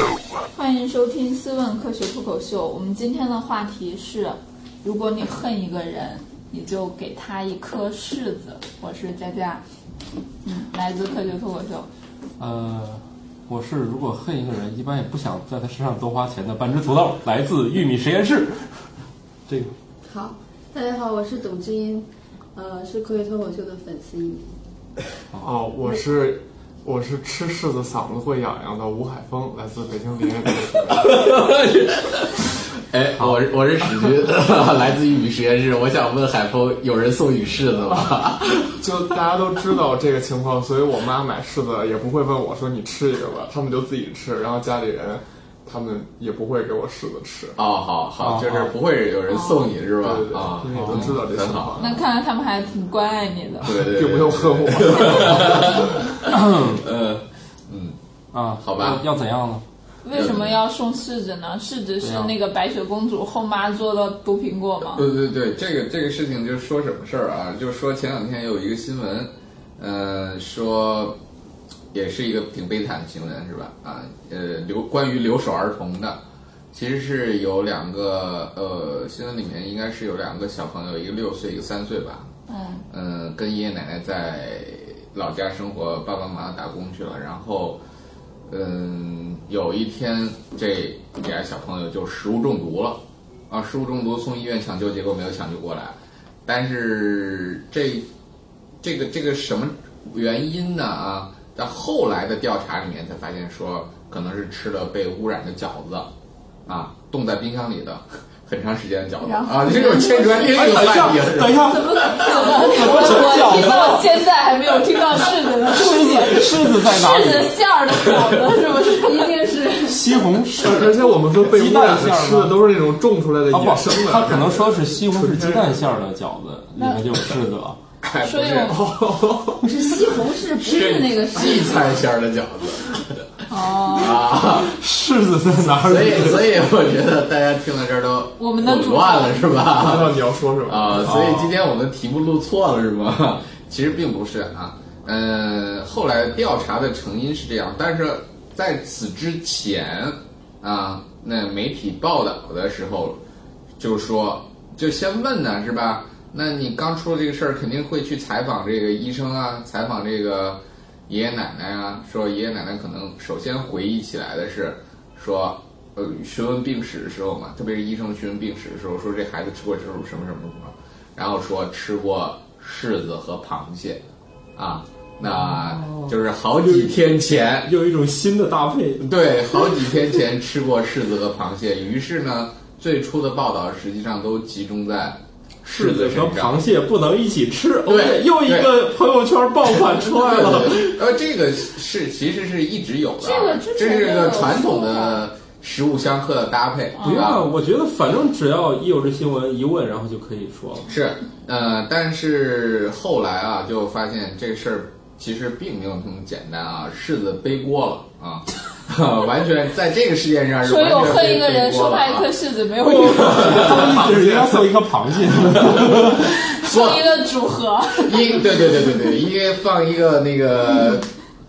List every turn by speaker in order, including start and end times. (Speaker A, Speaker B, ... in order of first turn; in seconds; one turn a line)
Speaker A: 0.6-9.6
Speaker A: 10.4-11.9
Speaker B: 12.4-18.9
Speaker B: 19.5-19.7
Speaker C: 20.1-24.5
Speaker D: 25.4-31.2
Speaker E: 30.9-38.8
Speaker D: 38.7-47.6
Speaker E: 47.6-51.8
Speaker B: 48.2-48.7
Speaker A: 49.3-49.7
Speaker D: 50.0-52.0
Speaker B: 50.8-51.2
Speaker A: 51.8-53.8
Speaker E: 53.6-58.0
Speaker D: 53.8-56.2
Speaker B: 56.3-56.8
Speaker B: 58.3-59.6
Speaker E: 58.6-59.0
Speaker A: 60.0-65.1
Speaker E: 60.1-60.6
Speaker B: 62.0-62.3
Speaker E: 64.9-71.2
Speaker E: 71.9-76.2
Speaker E: 76.7-82.3
Speaker A: 82.5-82.8
Speaker E: 82.9-87.8
Speaker E: 88.5-98.1
Speaker E: 98.8-106.1
Speaker E: 106.7-111.8
Speaker A: 109.2-110.4
Speaker B: 110.4-114.1
Speaker C: 111.9-113.0
Speaker A: 111.9-119.4
Speaker B: 115.7-117.6
Speaker C: 118.7-120.2
Speaker B: 119.8-122.6
Speaker D: 120.6-125.8
Speaker B: 123.5-127.8
Speaker E: 128.0-128.8
Speaker A: 128.2-128.9
Speaker D: 128.7-129.7
Speaker C: 129.6-131.8
Speaker E: 130.6-134.7
Speaker A: 133.5-134.3
Speaker B: 134.5-136.5
Speaker E: 135.7-153.2
Speaker A: 138.4-139.7
Speaker D: 139.7-141.1
Speaker B: 140.9-141.5
Speaker E: 153.8-174.0
Speaker E: 174.6-177.7
Speaker B: 175.2-177.0
Speaker B: 177.6-179.1
Speaker E: 179.0-186.6
Speaker B: 185.7-191.0
Speaker E: 187.9-188.8
Speaker E: 189.9-197.5
Speaker A: 193.2-195.2
Speaker A: 197.0-197.3
Speaker B: 197.0-200.9
Speaker E: 200.9-212.3
Speaker A: 210.6-214.0
Speaker B: 212.8-216.3
Speaker E: 212.9-214.1
Speaker D: 214.0-214.6
Speaker E: 215.5-217.1
Speaker A: 216.2-218.7
Speaker E: 218.0-221.1